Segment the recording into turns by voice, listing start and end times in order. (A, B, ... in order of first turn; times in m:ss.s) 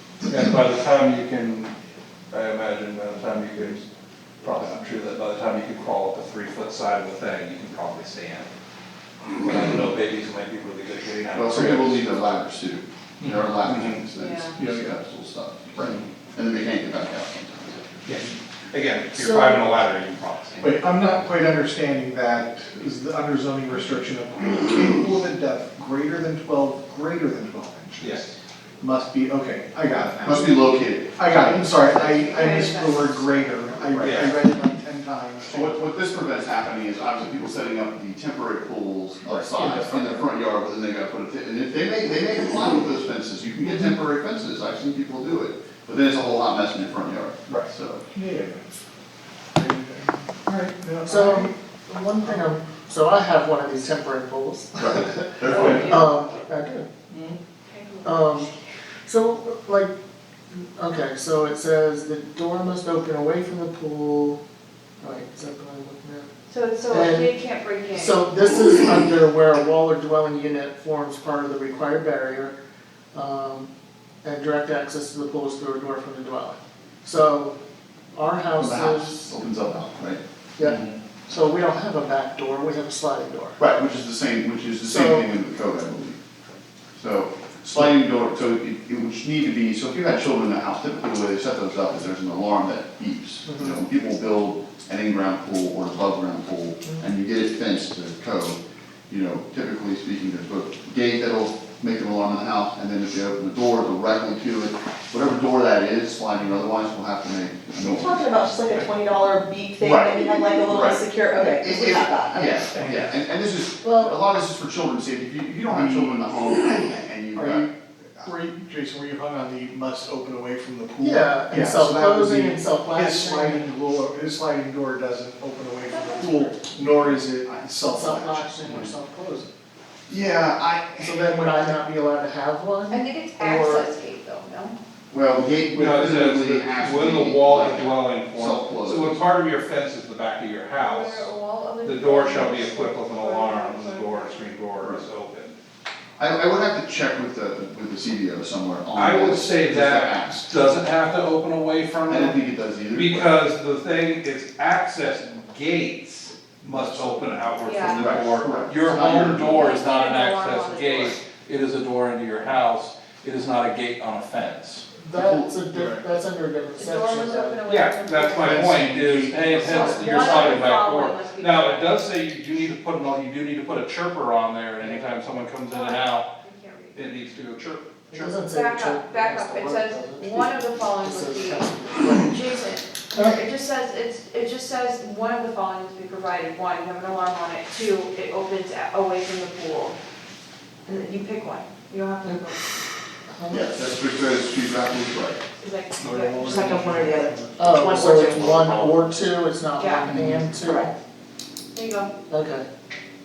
0:00.2-0:01.7 A
0:02.3-0:03.9 A
0:04.4-0:08.5 A
0:09.2-0:12.3 A
0:11.3-0:18.2 B
0:13.2-0:14.0 A
0:14.1-0:14.6 C
0:14.6-0:14.9 D
0:18.0-0:20.8 A
0:19.2-0:19.6 E
0:20.6-0:35.8 D
0:28.0-0:28.3 A
0:30.2-0:31.8 B
0:31.9-0:33.8 C
0:34.0-0:34.4 A
0:35.5-0:48.0 B
0:39.2-0:40.3 D
0:47.5-0:48.7 D
0:49.5-0:51.5 D
0:51.0-0:56.9 E
0:54.8-0:56.1 B
0:55.4-0:56.4 C
0:57.1-0:57.4 A
0:57.6-0:58.4 C
0:58.0-0:58.5 E
0:59.0-0:59.9 E
1:00.5-1:04.4 E
1:05.0-1:06.3 E
1:06.5-1:08.2 C
1:06.9-1:07.4 E
1:07.9-1:12.5 E
1:13.1-1:13.7 E
1:14.2-1:17.6 E
1:18.1-1:19.4 E
1:18.6-1:20.2 B
1:20.6-1:23.6 E
1:23.6-1:26.2 B
1:24.8-1:25.3 E
1:27.0-1:48.8 B
1:33.4-1:33.8 E
1:47.8-1:52.7 F
1:49.8-1:57.7 B
1:52.7-1:53.1 D
1:53.8-1:54.2 E
1:55.7-1:56.2 D
1:57.3-2:08.8 D
2:01.0-2:03.7 E
2:05.8-2:06.6 C
2:06.8-2:07.7 B
2:07.8-2:09.5 E
2:10.1-2:11.4 B
2:11.0-2:13.9 E
2:12.9-2:14.8 C
2:15.1-2:19.2 B
2:15.7-2:21.3 A
2:20.7-2:24.6 C
2:21.8-2:25.5 A
2:26.2-2:30.5 B
2:28.9-2:44.8 A
2:32.1-2:33.4 B
2:36.6-2:37.6 D
2:37.6-2:38.1 C
2:37.8-2:39.5 B
2:38.9-2:39.3 E
2:39.2-2:41.2 C
2:45.0-2:47.6 E
2:45.2-2:45.5 B
2:45.7-2:46.1 D
2:46.7-2:48.8 C
2:47.6-2:56.3 A
2:48.5-2:50.6 B
2:48.6-2:50.1 D
2:49.6-2:52.0 C
2:55.7-2:57.0 C
2:56.9-2:57.9 A
2:58.1-3:02.4 E
2:58.2-3:10.0 C
3:03.1-3:03.4 E
3:10.8-3:12.6 C
3:13.3-3:13.7 E
3:13.5-3:15.4 B
3:15.6-3:16.6 C
3:16.0-3:17.9 D
3:16.4-3:19.0 F
3:17.6-3:20.9 E
3:19.8-3:20.1 C
3:20.1-3:20.5 D
3:20.6-3:20.9 F
3:21.7-3:22.1 C
3:22.3-3:22.7 E